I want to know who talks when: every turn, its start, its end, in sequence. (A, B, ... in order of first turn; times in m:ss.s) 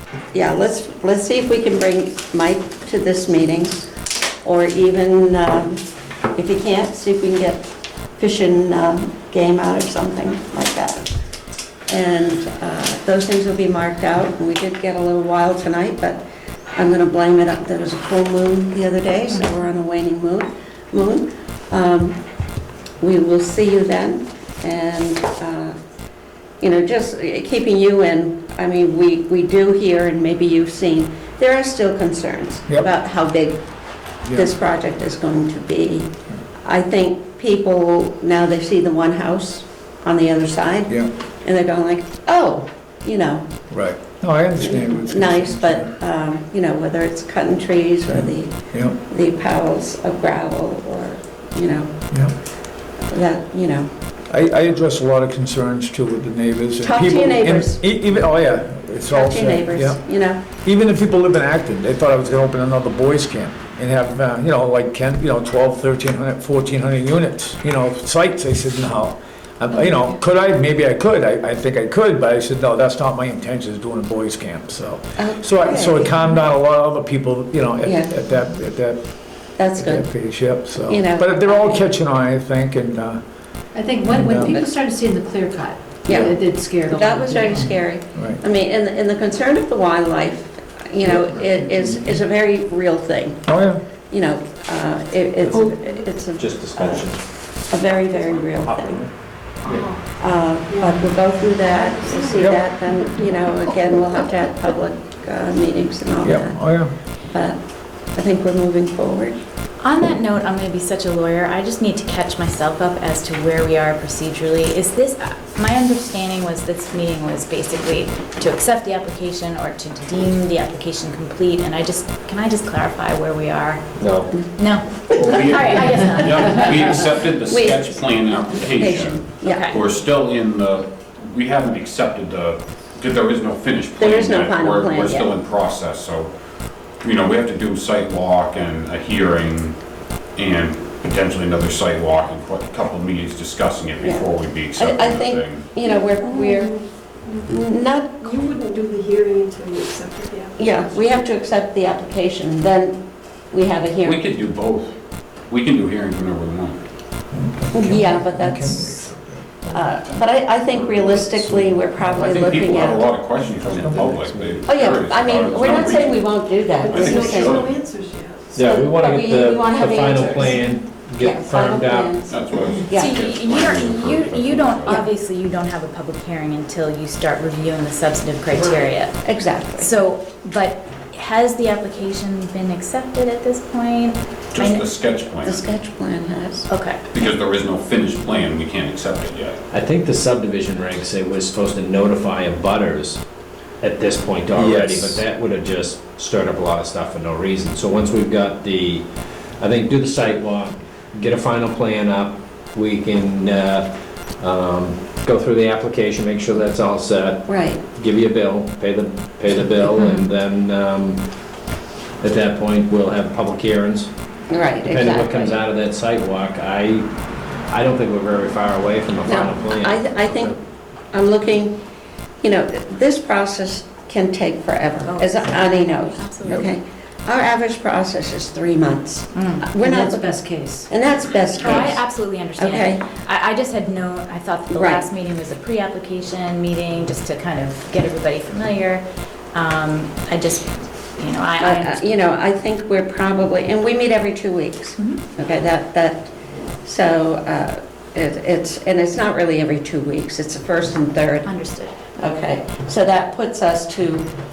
0:00.3-0:03.9 A
0:04.4-0:05.8 A
0:06.3-0:07.6 A
0:08.2-0:11.1 A
0:11.9-0:16.2 A
0:16.7-0:22.2 A
0:23.0-0:25.8 A
0:26.6-0:33.6 A
0:34.2-0:34.5 B
0:34.3-0:36.1 A
0:36.6-0:43.5 A
0:43.7-0:45.9 B
0:44.6-0:51.9 A
0:48.1-0:49.0 B
0:53.1-0:53.9 A
0:54.3-1:00.0 B
0:56.8-0:57.8 A
0:59.1-1:00.4 A
1:00.6-1:19.0 B
1:15.2-1:16.1 A
1:17.8-1:18.1 A
1:19.6-1:20.1 A
1:19.8-1:23.2 B
1:20.9-1:21.8 A
1:23.7-1:27.7 C
1:24.0-1:24.6 B
1:26.0-1:33.5 A
1:28.1-1:28.4 B
1:33.4-1:33.8 B
1:34.1-1:37.1 A
1:35.4-1:35.7 D
1:36.4-1:37.2 D
1:37.7-1:39.0 A
1:38.2-1:39.1 D
1:39.7-1:40.0 E
1:40.1-1:46.6 A
1:40.7-1:41.1 E
1:41.9-1:42.5 E
1:42.4-1:42.6 B
1:43.1-1:43.4 E
1:46.2-1:46.9 B
1:47.3-1:49.4 A
1:49.8-2:07.1 F
2:04.0-2:04.3 D
2:05.1-2:16.3 G
2:07.4-2:09.8 A
2:09.4-2:09.8 F
2:14.0-2:15.3 A
2:17.0-2:19.8 G
2:20.3-2:25.7 G
2:24.0-2:26.7 A
2:25.9-2:27.5 E
2:27.5-2:28.5 A
2:28.2-2:30.8 E
2:30.6-2:34.2 A
2:34.0-2:35.0 G
2:35.5-2:36.8 G
2:37.3-2:39.9 B
2:37.7-2:39.1 A
2:39.7-2:43.1 A
2:40.8-2:41.3 G
2:41.2-2:44.8 B
2:42.1-2:47.7 G
2:44.6-2:47.6 A
2:46.9-2:48.6 E
2:48.6-2:52.2 D
2:48.6-2:50.7 A
2:51.2-2:53.2 A
2:52.3-2:55.0 G
2:52.9-2:59.2 F
2:54.8-2:55.1 A
2:59.2-2:59.9 A
2:59.8-3:04.9 F
3:04.5-3:05.8 G
3:05.4-3:06.7 A
3:06.7-3:07.0 F
3:07.1-3:09.6 G
3:09.7-3:13.2 D
3:13.8-3:19.0 D
3:14.5-3:15.2 B
3:19.6-3:31.2 D
3:27.5-3:27.8 A
3:32.2-3:34.1 D
3:34.5-3:35.6 A
3:34.8-3:37.1 D
3:37.7-3:40.6 D
3:39.2-3:40.6 A
3:41.1-3:41.8 A
3:42.4-3:52.0 A
3:45.0-3:46.7 F
3:49.3-3:49.8 F
3:49.8-3:50.9 C
3:51.6-3:59.0 F
3:52.6-3:53.0 A
3:54.7-3:55.0 A
3:59.5-4:02.0 F
4:01.6-4:06.3 A
4:06.8-4:11.5 A
4:11.4-4:12.0 F
4:12.2-4:14.3 A